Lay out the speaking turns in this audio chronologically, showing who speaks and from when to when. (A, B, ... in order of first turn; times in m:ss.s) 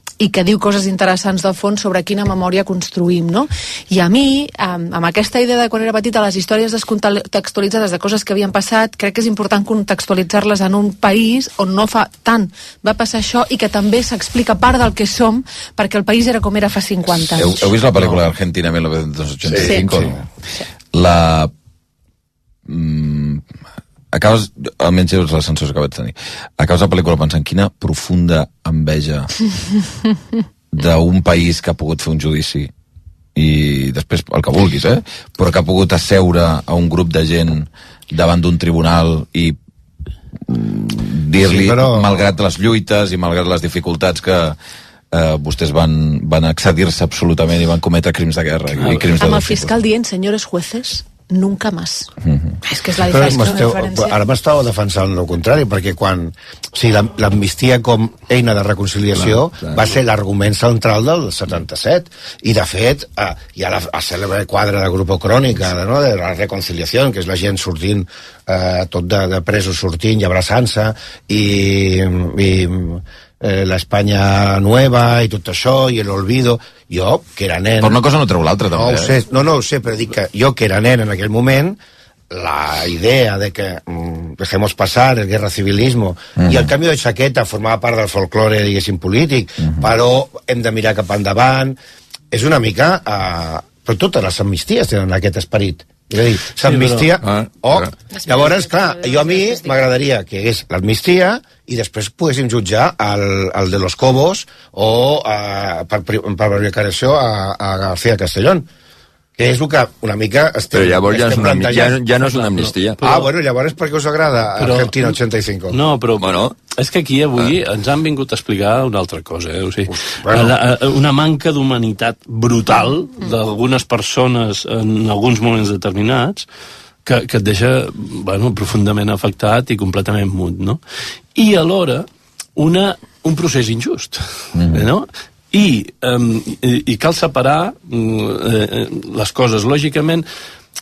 0:00.2-0:17.7 A
0:17.4-0:20.2 B
0:19.6-0:19.8 A
0:20.9-0:21.5 B
0:22.7-0:23.4 B
0:24.1-0:29.5 B
0:30.7-0:32.7 B
0:33.4-0:39.6 B
0:40.5-0:44.6 B
0:41.4-0:42.3 C
0:45.1-0:49.7 B
0:48.8-0:49.2 D
0:49.1-0:52.1 A
0:52.2-0:52.6 B
0:52.6-0:54.2 A
0:53.1-1:18.0 C
0:59.1-1:00.0 E
1:17.8-1:19.1 B
1:18.7-1:21.8 C
1:22.3-1:31.8 C
1:26.4-1:26.7 B
1:32.3-1:48.7 C
1:36.6-1:37.1 D
1:38.1-1:39.9 A
1:49.4-1:52.0 C
1:50.7-1:53.0 E
1:52.2-1:53.3 D
1:53.0-1:55.8 C
1:54.6-1:55.2 D
1:55.7-2:06.5 D
1:56.2-1:56.6 E
2:00.3-2:00.5 C
2:07.0-2:10.8 D
2:11.4-2:14.2 D
2:14.6-2:14.9 B
2:14.7-2:20.2 D